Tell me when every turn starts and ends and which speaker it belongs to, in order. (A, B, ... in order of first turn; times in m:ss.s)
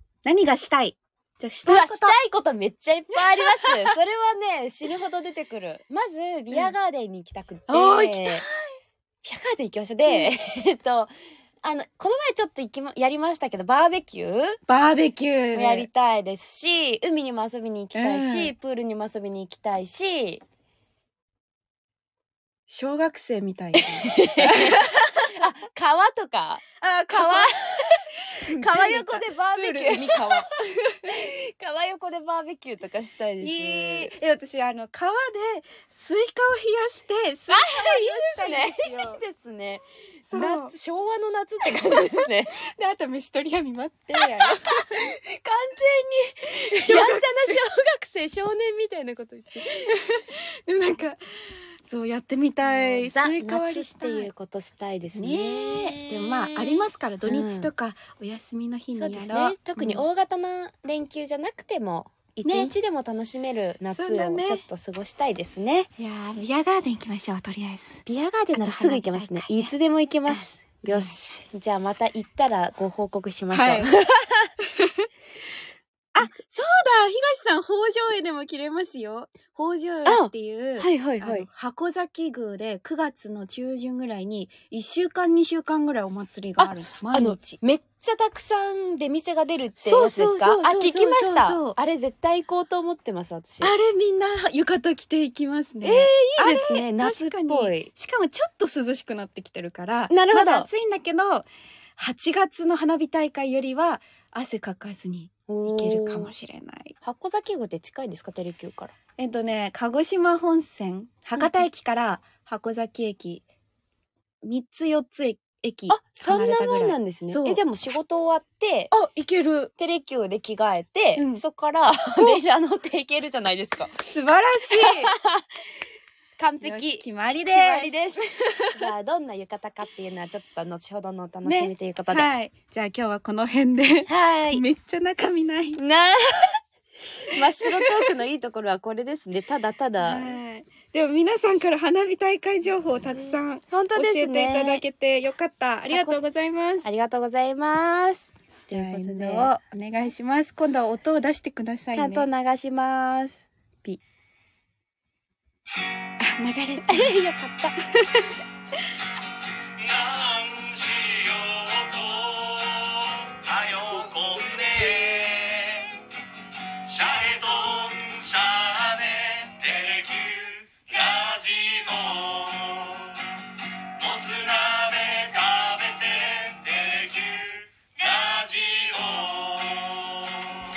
0:00.2-0:02.2 A
0:01.7-0:08.4 B
0:03.2-0:03.9 A
0:07.7-0:08.7 A
0:09.2-0:11.1 B
0:10.1-0:10.3 A
0:11.6-0:14.6 B
0:14.7-0:15.9 A
0:15.5-0:20.4 B
0:17.9-0:18.5 A
0:22.7-0:25.1 A
0:24.0-0:24.8 B
0:25.4-0:28.0 B
0:26.8-0:30.9 A
0:28.6-0:30.5 B
0:31.1-0:34.1 B
0:33.4-0:39.2 A
0:37.5-0:42.5 B
0:40.3-0:40.7 A
0:41.9-0:45.0 A
0:44.7-0:49.9 B
0:46.8-0:47.6 A
0:49.6-0:51.2 A
0:51.8-0:54.3 A
0:52.7-0:57.7 B
0:55.1-1:00.1 A
0:59.0-1:05.9 B
1:02.4-1:02.7 A
1:03.9-1:04.6 A
1:06.0-1:08.0 A
1:08.1-1:14.5 B
1:08.6-1:09.7 A
1:10.3-1:11.5 A
1:13.5-1:14.0 A
1:16.1-1:27.4 A
1:20.1-1:21.5 B
1:26.6-1:33.7 B
1:29.8-1:31.8 A
1:33.6-1:47.0 A
1:35.8-1:37.9 B
1:40.1-1:40.7 B
1:45.5-1:46.3 B
1:47.0-1:48.9 B
1:49.2-1:53.4 A
1:51.4-1:51.7 B
1:54.4-1:57.6 A
1:55.9-1:58.9 B
1:58.9-1:59.7 A
1:59.8-2:04.0 B
2:01.2-2:01.4 A
2:04.1-2:05.1 A
2:04.8-2:05.4 B
2:06.4-2:12.3 B
2:06.6-2:08.8 A
2:11.4-2:15.8 A
2:14.1-2:14.6 B
2:15.8-2:16.6 B
2:17.3-2:20.4 B
2:20.0-2:26.9 A
2:23.2-2:24.8 B
2:25.9-2:26.2 B
2:26.8-2:29.5 B
2:28.7-2:32.3 A
2:31.9-2:34.0 B
2:36.2-2:37.2 A
2:36.9-2:37.8 B
2:37.9-2:38.4 A
2:40.3-2:42.0 C
2:43.4-2:45.7 C
2:46.9-2:52.5 C
2:54.0-2:57.1 C
2:58.1-2:59.3 C